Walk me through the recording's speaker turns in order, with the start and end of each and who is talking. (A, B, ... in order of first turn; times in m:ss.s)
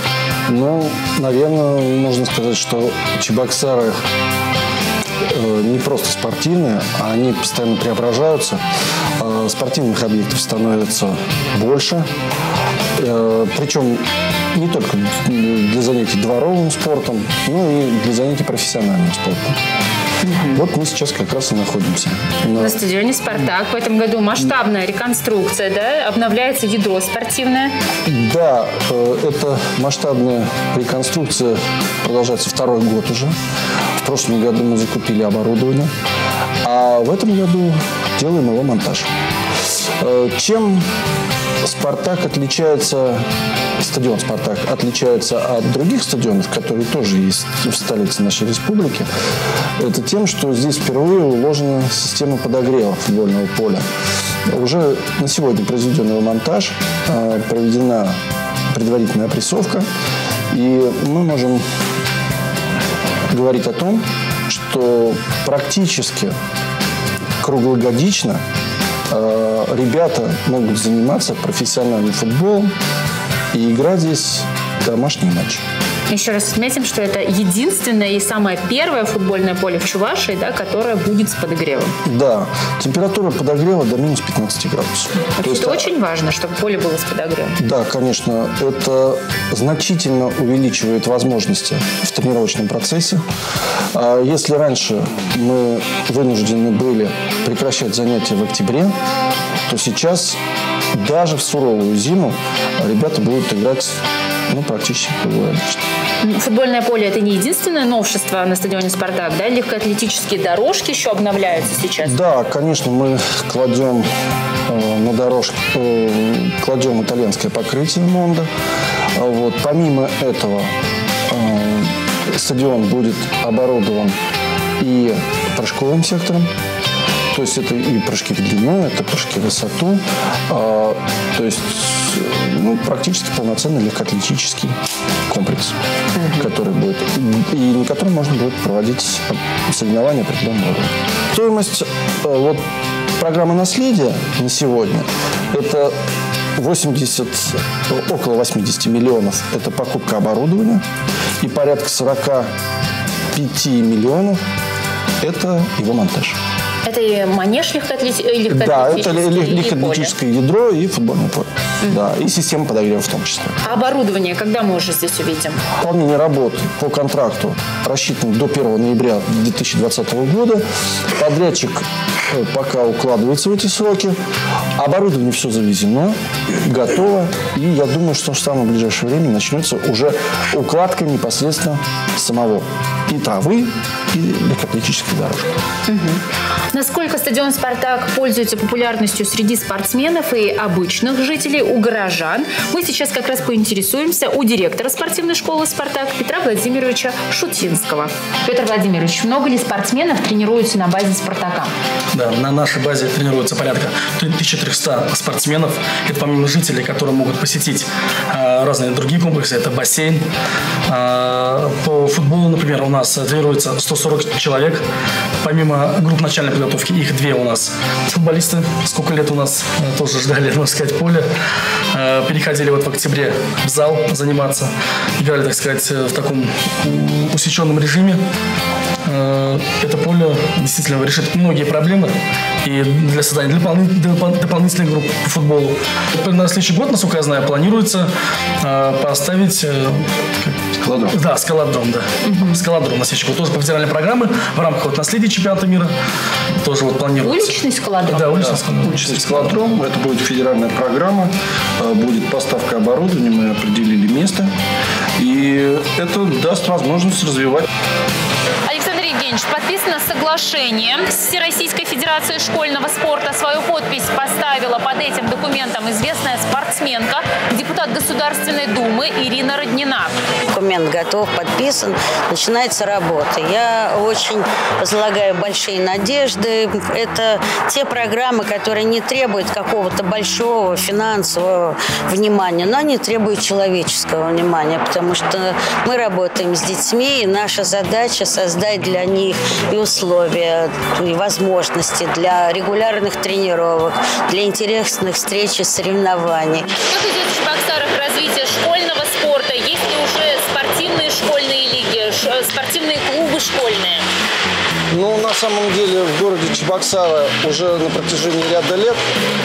0:00.5-0:04.0 A
0:05.3-0:08.6 A
0:09.2-0:12.1 A
0:13.0-0:19.6 A
0:20.2-0:20.6 B
0:20.5-0:22.8 A
0:22.5-0:27.8 B
0:28.0-0:33.4 A
0:34.0-0:35.9 A
0:36.6-0:39.1 A
0:40.0-0:40.9 A
0:41.6-0:43.3 A
0:43.8-0:49.1 A
0:49.8-0:53.9 A
0:54.5-0:58.2 A
0:58.7-0:59.9 A
1:00.5-1:01.6 A
1:03.3-1:06.4 A
1:07.4-1:08.4 A
1:09.1-1:12.7 A
1:13.5-1:15.6 A
1:16.1-1:22.0 B
1:22.0-1:25.9 A
1:25.3-1:27.6 B
1:27.6-1:33.2 A
1:33.9-1:39.0 A
1:39.7-1:40.4 A
1:40.9-1:45.8 A
1:46.2-1:52.2 B
1:52.0-1:54.1 A
1:54.7-1:58.5 A
1:59.2-2:00.7 A
2:01.3-2:04.2 A
2:04.8-2:06.5 A
2:07.3-2:14.8 A
2:15.3-2:15.8 A
2:16.3-2:22.6 A
2:23.2-2:26.0 A
2:26.6-2:30.8 A
2:31.4-2:32.5 A
2:33.3-2:34.4 A
2:35.2-2:36.4 A
2:36.8-2:40.2 B
2:38.5-2:43.7 A
2:43.6-2:45.6 B
2:45.8-2:50.6 A
2:51.2-2:54.2 A
2:54.8-3:05.6 A
3:05.9-3:21.7 B
3:22.1-3:30.3 C
3:30.9-3:34.8 C
3:35.4-3:41.3 C
3:41.9-3:48.2 C
3:49.0-4:05.9 C
4:00.8-4:01.2 A
4:02.2-4:02.6 B
4:06.6-4:09.7 C
4:07.2-4:08.3 B
4:08.4-4:14.5 A
4:15.2-4:17.7 A
4:18.7-4:30.2 B
4:30.5-4:56.7 D
4:56.9-5:04.1 B
5:04.9-5:09.0 A